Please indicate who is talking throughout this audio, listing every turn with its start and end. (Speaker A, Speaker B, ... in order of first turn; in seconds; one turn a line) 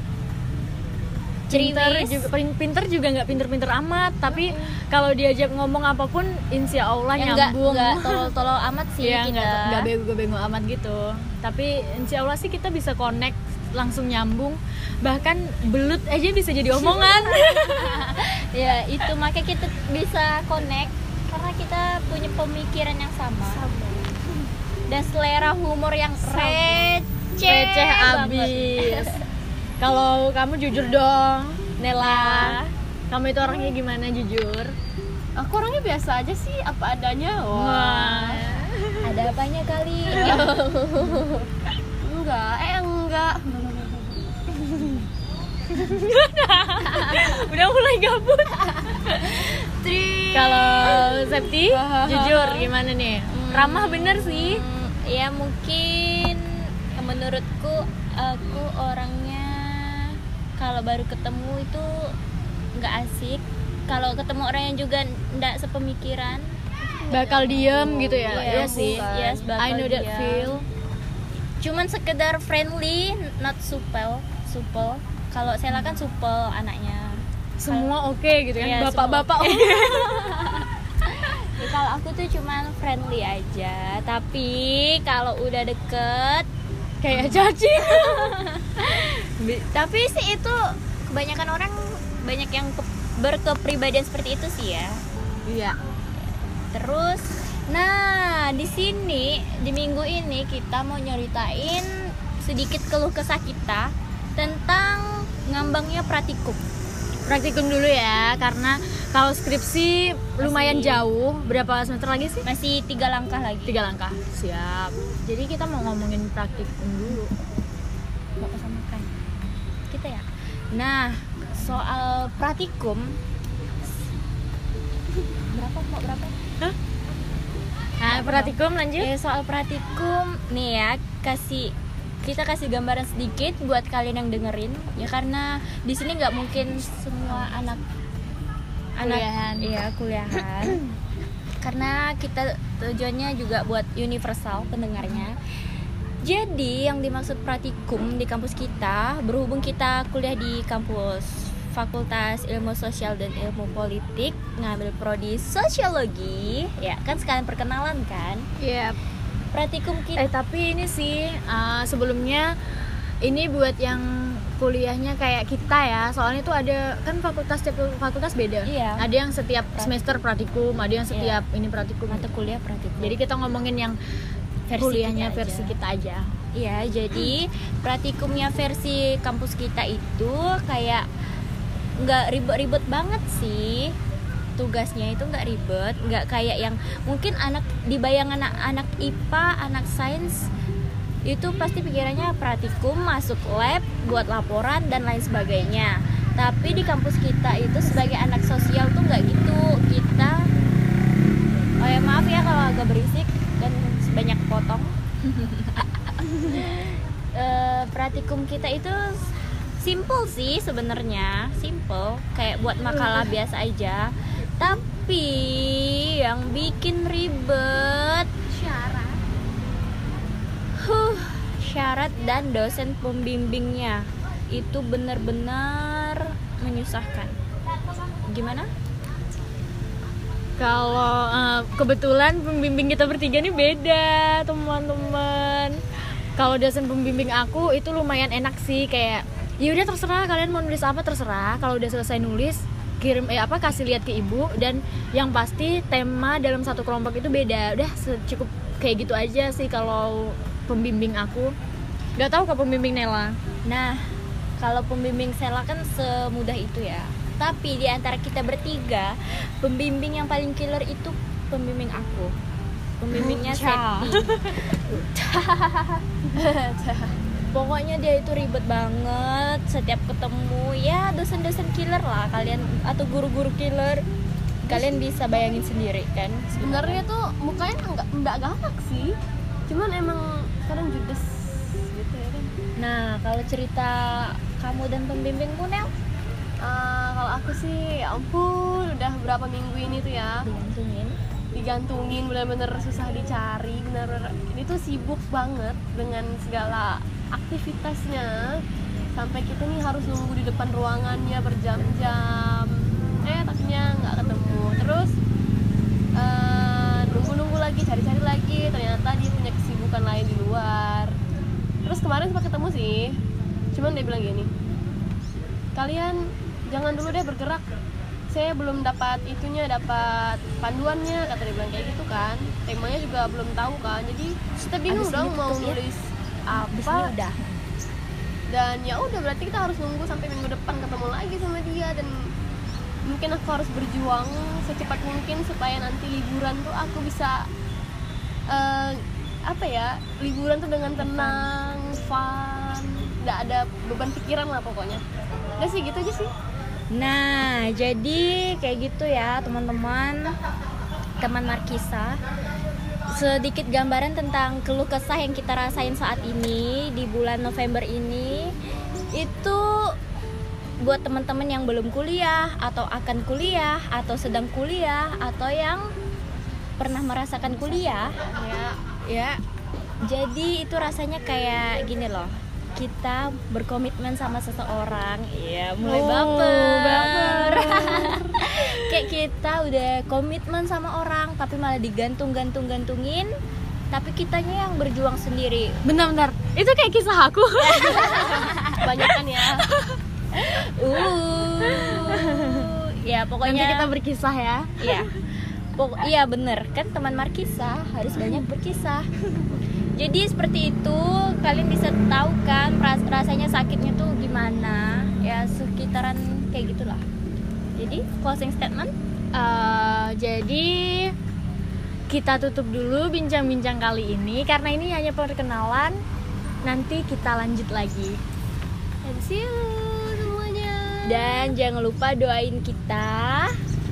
Speaker A: 1.5-8.3
Speaker B: 1.5-2.3
Speaker B: 7.2-9.9
Speaker A: 9.0-18.0
Speaker B: 16.7-23.6
Speaker C: 23.4-24.2
Speaker B: 24.9-29.2
Speaker C: 26.2-26.9
Speaker A: 26.3-26.7
Speaker A: 27.4-29.2
Speaker A: 29.8-32.6
Speaker B: 32.0-32.7
Speaker A: 33.1-34.7
Speaker C: 35.4-38.6
Speaker A: 37.5-39.2
Speaker B: 39.0-40.6
Speaker C: 40.1-41.5
Speaker C: 42.0-44.2
Speaker A: 44.6-45.0
Speaker A: 45.7-47.9
Speaker B: 46.7-52.6
Speaker A: 50.3-54.6
Speaker C: 51.7-52.3
Speaker B: 53.3-62.1
Speaker B: 62.7-66.6
Speaker C: 66.8-69.5
Speaker A: 67.1-70.6
Speaker B: 68.3-70.6
Speaker B: 71.6-78.0
Speaker A: 77.6-80.3
Speaker B: 78.6-86.5
Speaker A: 87.0-88.4
Speaker B: 87.1-95.0
Speaker A: 95.5-95.7
Speaker B: 96.7-106.6
Speaker A: 107.2-112.5
Speaker B: 110.4-111.1
Speaker B: 112.4-113.8
Speaker A: 113.7-117.3
Speaker B: 118.4-119.1
Speaker B: 119.9-123.2
Speaker B: 125.5-126.3
Speaker A: 128.0-129.1
Speaker B: 128.1-137.8
Speaker B: 139.0-140.8
Speaker A: 139.0-139.7
Speaker A: 140.3-140.9
Speaker B: 141.6-145.4
Speaker A: 145.0-145.3
Speaker B: 146.2-158.4
Speaker A: 158.6-159.0
Speaker B: 159.5-160.3
Speaker A: 160.2-162.5
Speaker A: 163.2-172.4
Speaker B: 168.7-169.1
Speaker B: 169.7-170.0
Speaker B: 171.1-171.4
Speaker B: 172.1-173.2
Speaker A: 173.0-174.0
Speaker B: 174.7-175.7
Speaker A: 174.7-176.3
Speaker B: 176.5-181.0
Speaker B: 182.0-183.9
Speaker B: 184.6-190.5
Speaker B: 191.2-200.5
Speaker B: 201.8-218.3
Speaker A: 213.0-213.3
Speaker C: 218.6-219.2
Speaker B: 220.8-227.3
Speaker B: 228.2-228.7
Speaker A: 230.6-235.8
Speaker A: 236.4-251.5
Speaker A: 252.2-253.4
Speaker B: 253.7-254.0
Speaker B: 254.6-262.3
Speaker B: 263.0-264.4
Speaker A: 263.1-265.9
Speaker C: 266.3-267.1
Speaker B: 267.5-274.0
Speaker B: 274.6-277.0
Speaker C: 276.5-279.1
Speaker C: 279.7-282.5
Speaker B: 282.8-285.9
Speaker C: 286.6-290.4
Speaker B: 290.4-291.2
Speaker C: 291.5-298.6
Speaker C: 299.1-305.2
Speaker C: 306.1-311.1
Speaker C: 311.8-313.2
Speaker C: 313.7-314.5
Speaker C: 315.7-317.6
Speaker C: 318.3-327.1
Speaker B: 324.9-325.8
Speaker B: 326.5-327.4
Speaker C: 328.5-332.3
Speaker C: 333.1-337.4
Speaker C: 338.5-345.0
Speaker B: 341.0-341.5
Speaker C: 345.6-346.3
Speaker B: 346.9-350.3
Speaker B: 351.2-352.2
Speaker B: 353.1-358.5
Speaker B: 359.1-359.9
Speaker B: 360.8-365.9
Speaker B: 366.8-368.1
Speaker C: 367.8-368.8
Speaker B: 369.1-369.4
Speaker B: 370.0-383.3
Speaker A: 375.8-379.0
Speaker B: 383.9-385.8
Speaker A: 385.8-390.0
Speaker B: 387.6-388.8
Speaker C: 388.8-389.7
Speaker B: 390.3-393.9
Speaker A: 391.6-392.7
Speaker A: 393.4-395.1
Speaker B: 394.8-395.1
Speaker B: 395.8-399.1
Speaker A: 398.2-398.4
Speaker B: 400.0-407.0
Speaker B: 407.8-408.9
Speaker A: 409.3-411.1
Speaker A: 412.1-416.0
Speaker A: 416.6-418.2
Speaker C: 419.0-421.5
Speaker B: 421.1-423.6